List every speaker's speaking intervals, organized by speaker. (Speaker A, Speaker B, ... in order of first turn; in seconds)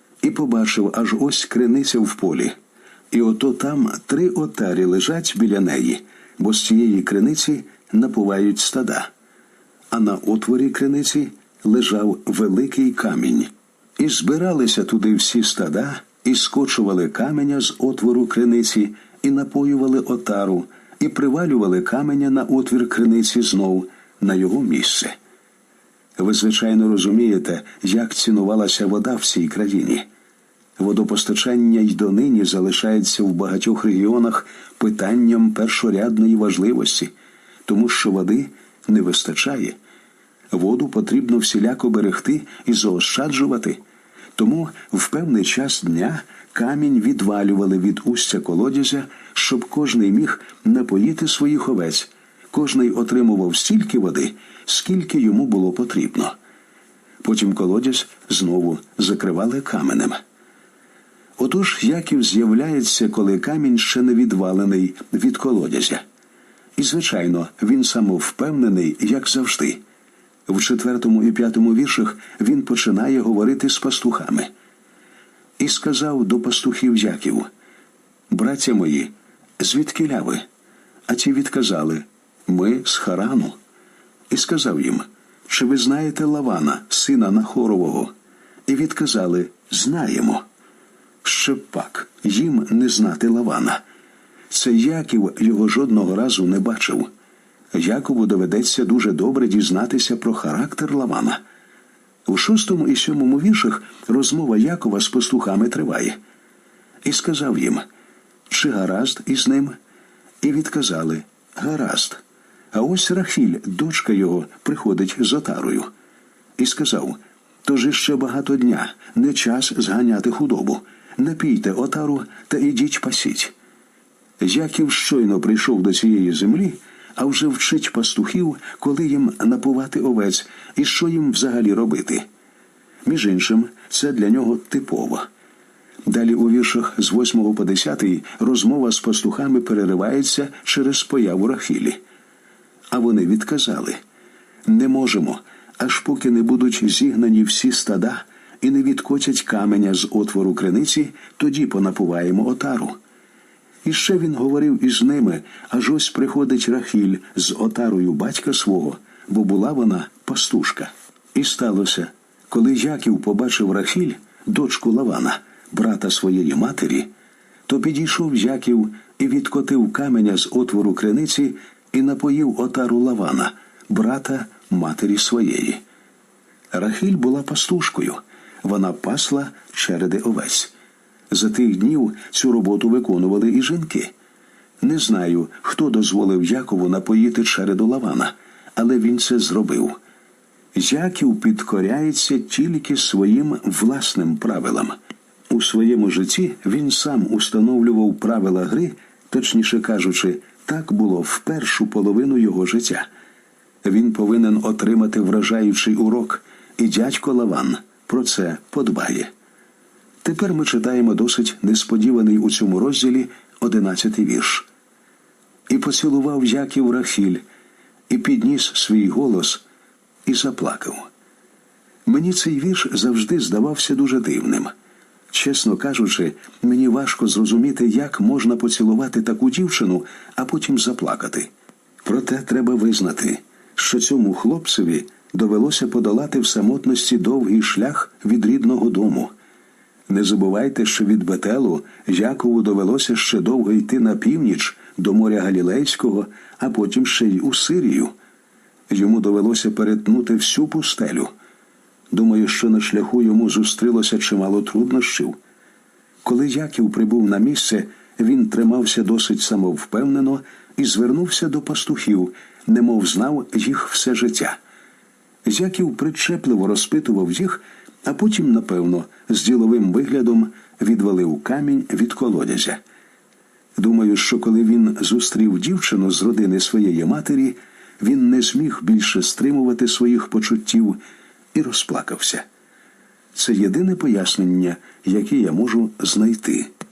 Speaker A: 0.2-2.5, 3.1-9.1, 9.9-25.1, 26.2-30.1, 30.8-37.1, 37.6-39.8, 40.5-43.8, 44.4-56.3, 57.2-60.2, 61.4-66.0, 66.8-69.8, 70.5-74.5, 75.6-77.5, 78.3-80.4, 81.1-83.5, 84.3-88.1, 88.7-90.4, 91.2-93.8, 94.5-97.1, 97.7-101.4, 102.2-106.2, 107.0-107.8, 108.5-109.7, 110.4-112.2, 112.7-115.9, 116.6-123.5, 124.4-132.2, 133.0-135.3, 136.1-142.0, 142.9-144.0, 144.7-153.0, 153.8-167.1, 167.7-175.8, 176.7-180.7, 181.3-184.1, 184.8-190.0, 190.7-195.0, 195.5-203.1, 203.8-209.3, 210.2-214.7, 215.7-217.4, 218.1-219.6, 220.2-221.1, 222.1-224.7, 225.3-231.5, 232.0-239.3, 240.1-248.1, 248.9-251.3, 252.1-255.4, 256.2-264.6, 265.4-272.8, 273.8-281.0, 281.5-282.4, 283.3-286.7